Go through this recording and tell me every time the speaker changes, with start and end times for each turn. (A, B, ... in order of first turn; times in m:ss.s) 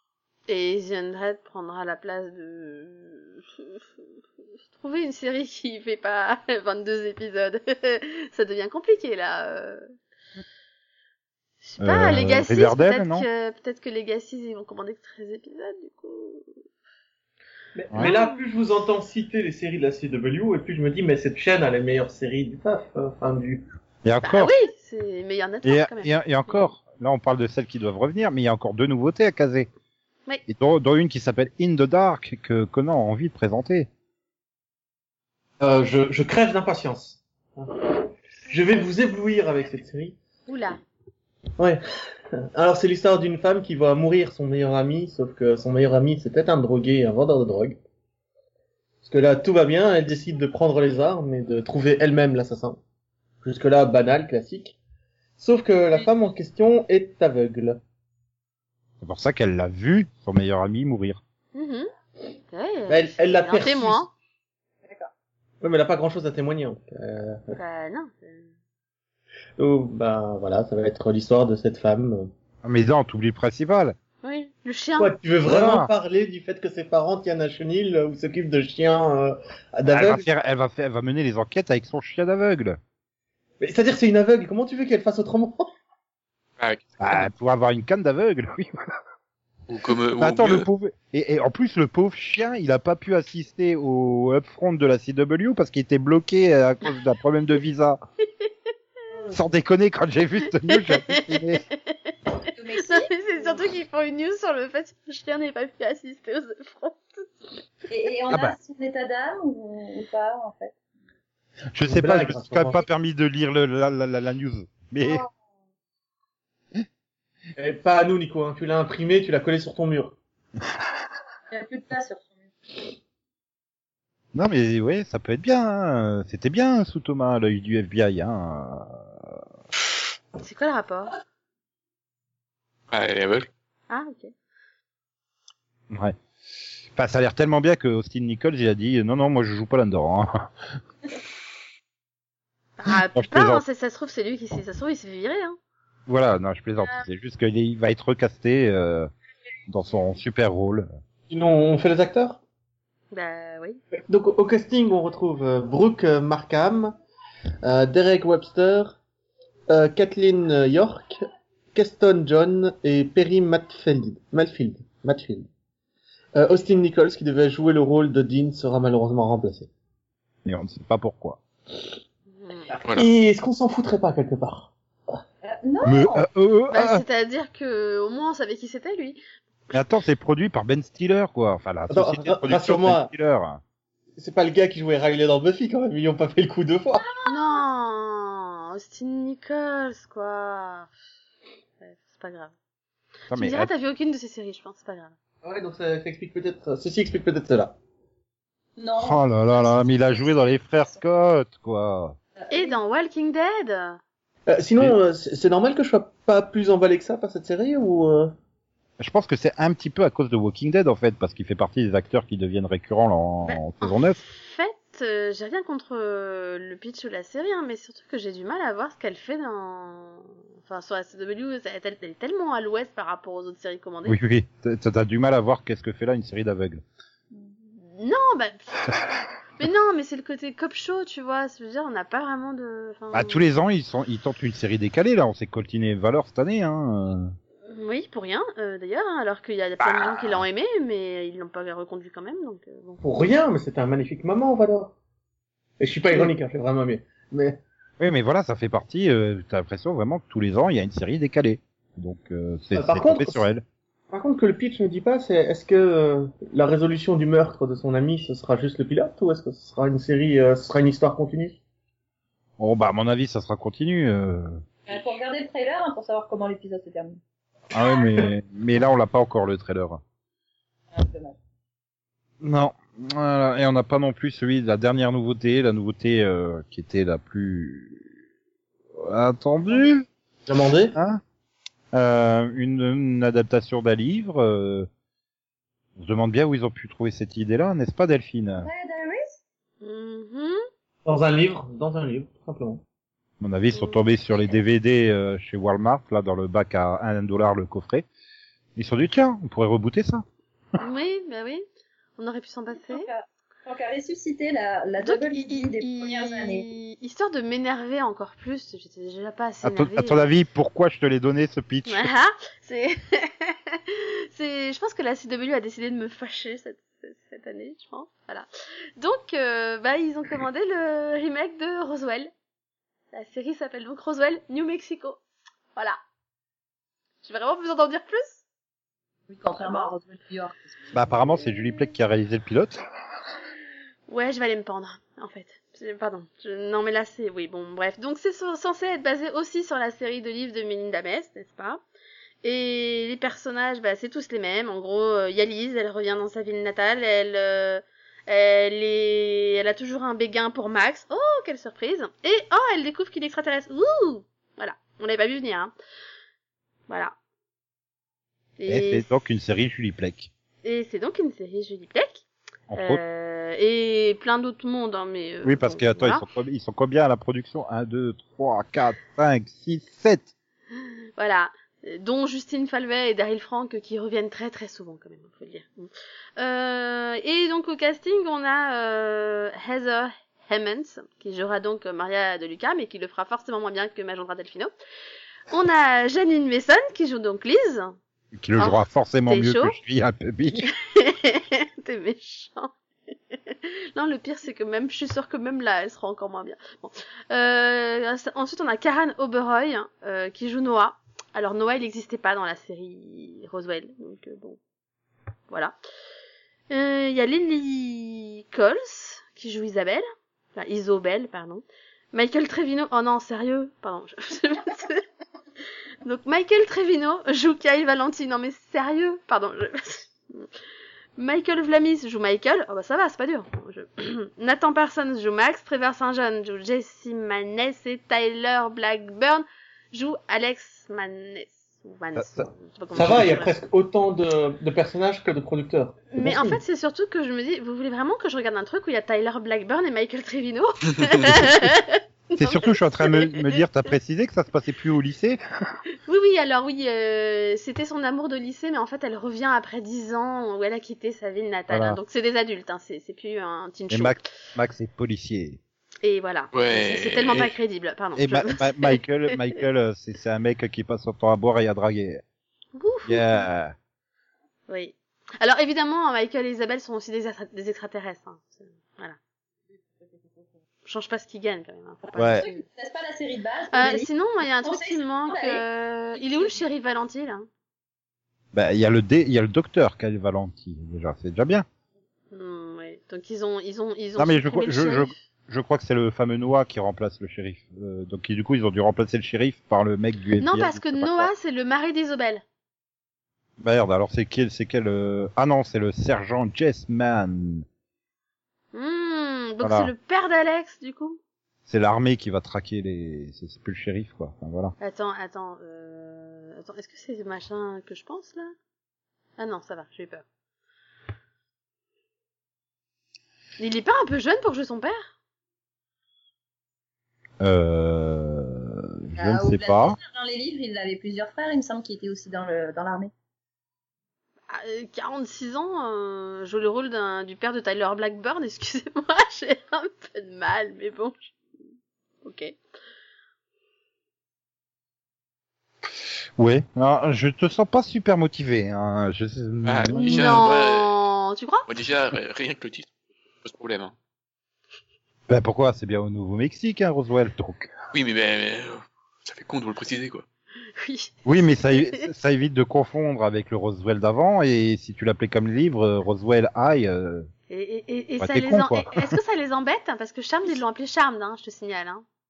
0:00.5-0:03.8 A
0:04.7-0:09.9 A
0:11.6-0:16.5 A
0:11.8-0:13.3 B
0:17.8-0:23.6 C
0:18.0-0:18.4 A
0:24.0-0:24.6 B
0:24.2-0:26.7 A
0:25.6-0:29.7 B
0:30.5-0:33.9 B
0:35.6-0:40.2 C
0:40.5-0:40.8 A
0:42.5-0:47.8 C
0:49.0-0:52.8 C
0:53.4-0:54.8 C
0:55.4-0:57.8 C
0:59.0-1:01.2 B
1:01.6-1:01.9 A
1:02.5-1:04.1 A
1:02.9-1:04.1 C
1:04.8-1:05.1 D
1:05.6-1:07.6 C
1:07.5-1:08.5 A
1:09.6-1:12.3 C
1:12.6-1:14.0 B
1:14.2-1:15.2 A
1:15.0-1:20.2 C
1:15.4-1:15.9 B
1:19.8-1:22.8 B
1:23.6-1:25.7 C
1:26.6-1:27.3 E
1:27.0-1:28.7 B
1:29.7-1:30.7 E
1:30.2-1:38.0 B
1:39.3-1:41.6 B
1:40.7-1:42.2 A
1:42.5-1:43.6 D
1:42.8-1:47.3 A
1:47.9-1:50.8 D
1:51.7-1:55.2 B
1:51.9-1:52.8 C
1:55.0-1:55.3 D
1:57.6-2:00.2 C
2:01.5-2:02.4 D
2:04.3-2:09.0 B
2:10.4-2:11.2 A
2:12.9-2:13.5 E
2:13.9-2:14.3 A
2:15.9-2:16.2 B
2:17.0-2:20.5 B
2:22.8-2:25.6 A
2:22.9-2:23.6 B
2:26.1-2:29.1 B
2:29.7-2:30.9 B
2:31.3-2:32.4 C
2:33.1-2:33.8 A
2:34.1-2:37.0 C
2:37.6-2:39.0 C
2:39.7-2:41.1 C
2:41.7-2:45.5 C
2:46.3-2:49.7 C
2:50.4-2:51.4 B
2:52.3-2:52.7 A
2:52.7-2:55.2 C
2:55.4-2:56.3 D
2:55.8-2:57.0 B
2:56.7-2:59.2 A
2:59.7-3:03.6 B
3:01.9-3:03.1 C
3:04.2-3:07.1 C
3:07.1-3:07.6 D
3:07.3-3:10.9 A
3:11.8-3:12.5 A
3:13.3-3:13.7 B
3:13.3-3:15.2 A
3:15.4-3:17.8 C
3:18.8-3:21.0 D
3:19.0-3:22.2 B
3:22.4-3:22.8 D
3:22.5-3:24.0 A
3:24.5-3:28.3 C
3:29.0-3:34.2 B
3:33.4-3:44.2 A
3:44.1-3:46.8 B
3:47.8-3:48.8 A
3:49.6-3:53.4 A
3:53.1-3:57.3 B
3:57.7-4:03.0 A
3:59.8-4:00.4 B
4:03.0-4:04.9 C
4:05.8-4:07.6 C
4:08.0-4:13.6 B
4:12.7-4:13.4 C
4:14.1-4:21.6 C
4:22.6-4:24.6 B
4:24.9-4:27.2 D
4:27.7-4:30.0 B
4:30.9-4:31.4 D
4:32.4-4:38.0 B
4:39.0-4:40.1 B
4:40.5-4:41.0 C
4:41.0-4:41.2 B
4:41.9-4:44.9 B
4:46.0-4:48.7 B
4:48.6-4:49.4 D
4:49.8-4:50.6 A
4:51.0-4:52.8 C
4:53.4-4:58.1 B
4:53.7-4:54.0 A
4:58.8-5:00.2 B
5:00.8-5:01.6 A
5:02.2-5:03.1 A
5:02.8-5:06.7 D
5:05.0-5:10.3 A
5:09.6-5:12.1 B
5:11.9-5:18.5 A
5:19.0-5:22.3 A
5:23.1-5:25.2 A
5:27.2-5:28.4 A
5:29.3-5:31.1 D
5:29.6-5:29.9 A
5:30.9-5:32.8 B
5:34.1-5:41.8 A
5:42.4-5:55.7 A
5:56.9-5:57.1 A
5:58.6-5:59.1 A
5:58.7-6:00.3 B
6:00.6-6:06.2 A
6:02.7-6:03.0 B
6:05.4-6:10.3 B
6:10.8-6:24.7 A
6:25.5-6:28.0 A
6:28.3-6:30.7 B
6:28.6-6:29.8 A
6:30.6-6:32.7 A
6:33.3-6:44.6 A
6:45.5-6:45.8 A
6:46.7-6:50.0 A
6:50.6-6:55.0 A
6:56.0-7:00.5 A
7:01.2-7:13.5 A
7:12.2-7:12.5 B
7:12.9-7:16.6 C
7:16.1-7:23.6 A
7:21.3-7:21.7 B
7:22.4-7:25.4 B
7:26.1-7:34.2 A
7:31.7-7:32.0 B
7:33.9-7:35.6 B
7:36.0-7:39.4 A
7:36.5-7:37.5 E
7:38.2-7:42.2 B
7:42.8-7:43.4 A
7:43.1-7:43.7 B
7:44.7-7:49.2 A
7:50.0-7:50.5 D
7:50.9-7:52.6 A
7:52.1-7:55.6 D
7:52.2-7:52.5 B
7:53.7-7:57.5 A
7:56.2-7:56.6 D
7:58.5-8:01.7 B
8:02.3-8:05.1 A
8:04.2-8:11.3 B
8:10.4-8:12.4 A
8:13.6-8:17.6 B
8:18.7-8:21.2 A
8:19.6-8:19.9 B
8:21.7-8:24.7 B
8:24.8-8:28.5 A
8:29.4-8:30.2 A
8:33.6-8:35.1 A
8:37.4-8:40.0 B
8:39.2-8:43.1 D
8:44.5-8:51.3 A
8:52.2-8:52.6 A
8:56.4-9:00.4 B
8:59.6-9:00.9 E
9:00.0-9:01.6 A
9:01.7-9:02.9 E
9:03.4-9:03.9 E
9:05.3-9:07.7 B
9:07.9-9:10.2 E
9:10.8-9:12.1 A
9:11.2-9:17.3 B
9:17.5-9:22.0 A
9:18.2-9:19.2 B